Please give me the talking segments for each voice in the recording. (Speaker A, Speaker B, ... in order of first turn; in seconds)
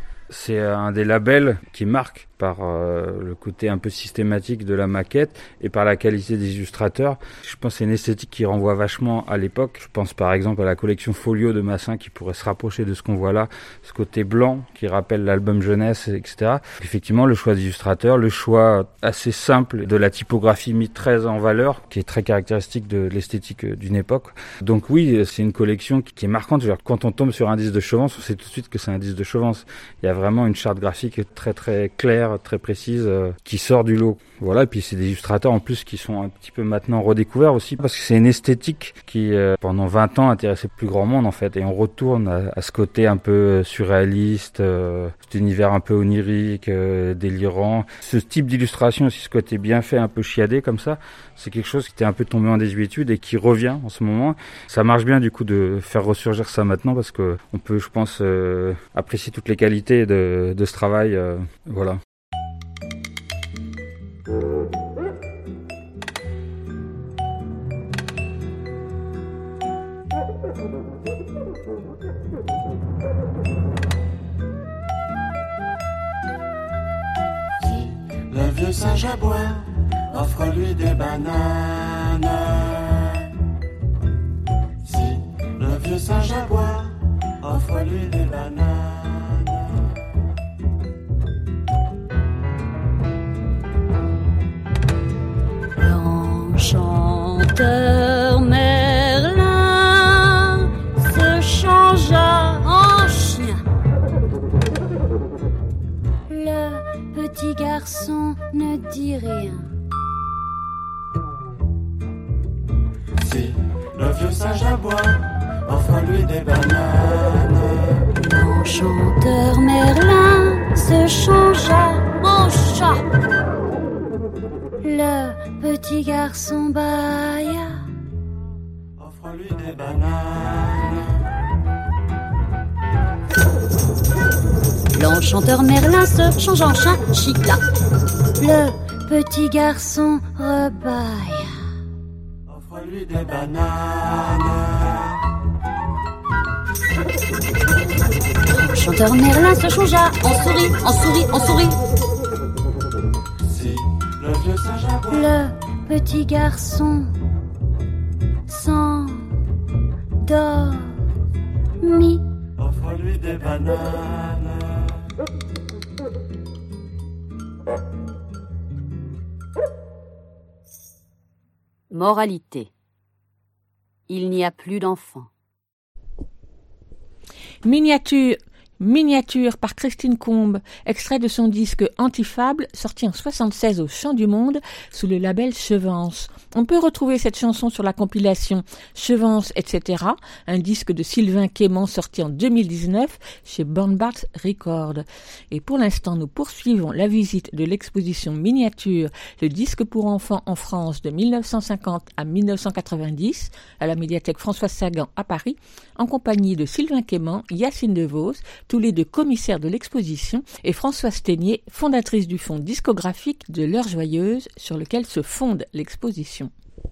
Speaker A: 0.3-62.0
Speaker B: 77.6-83.2, 84.8-89.6, 113.2-118.0, 129.0-131.2, 142.5-145.1, 153.4-155.2, 162.6-164.7
Speaker C: 95.8-103.6, 106.3-109.7, 118.1-123.0, 124.8-127.8, 134.9-137.6, 138.4-141.6, 148.5-151.8, 155.1-157.1, 158.5-159.3, 160.2-161.0, 161.8-162.2
Speaker D: 171.9-172.7, 174.1-175.3
Speaker E: 177.6-216.5